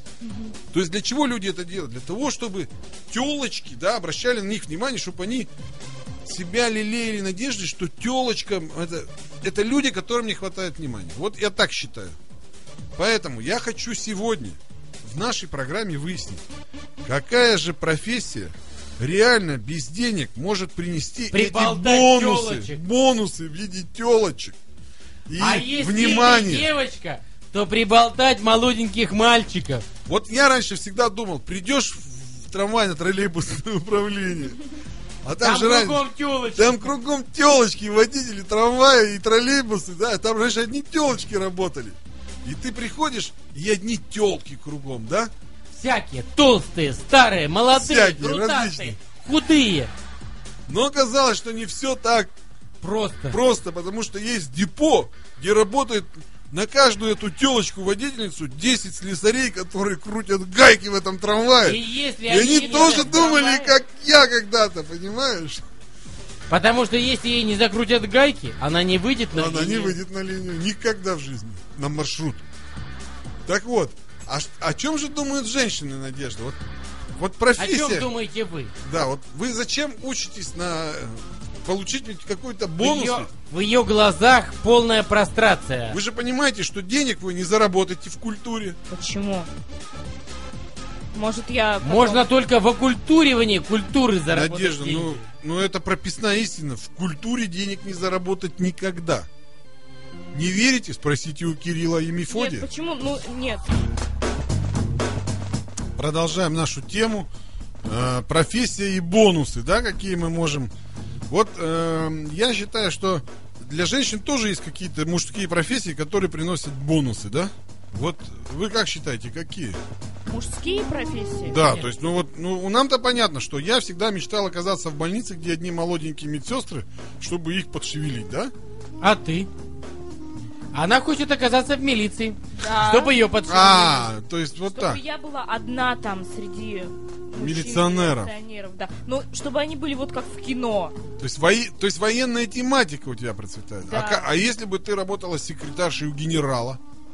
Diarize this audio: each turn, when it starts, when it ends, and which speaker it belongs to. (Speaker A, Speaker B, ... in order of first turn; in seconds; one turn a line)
Speaker A: 0.2-0.5
Speaker B: 0.7-5.5
Speaker B: 6.2-12.2
Speaker B: 12.9-16.4
Speaker B: 17.0-24.6
Speaker C: 21.3-22.8
Speaker B: 25.3-26.7
Speaker C: 25.4-29.8
Speaker B: 30.1-34.6
Speaker B: 35.2-45.3
Speaker C: 35.4-36.9
Speaker C: 45.7-49.9
Speaker B: 47.7-49.0
Speaker B: 50.7-52.3
Speaker C: 52.8-53.4
Speaker B: 53.3-65.6
Speaker C: 61.6-63.7
Speaker C: 66.5-70.0
Speaker B: 69.3-72.4
Speaker B: 73.5-76.6
Speaker B: 77.1-78.1
Speaker C: 77.6-78.7
Speaker B: 78.8-83.3
Speaker C: 82.8-86.0
Speaker B: 85.9-88.8
Speaker A: 88.9-89.5
Speaker A: 91.1-92.2
Speaker C: 91.8-95.2
Speaker B: 94.3-99.3
Speaker B: 100.3-102.7
Speaker A: 102.3-103.8
Speaker B: 106.0-107.3
Speaker B: 107.8-110.7
Speaker B: 111.3-119.8
Speaker A: 120.3-121.6
Speaker B: 121.4-128.5
Speaker C: 129.0-129.5
Speaker C: 130.7-134.1
Speaker A: 132.6-133.2
Speaker B: 133.5-135.0
Speaker A: 134.7-140.9
Speaker B: 137.3-138.3
Speaker B: 141.2-146.8
Speaker A: 143.9-144.3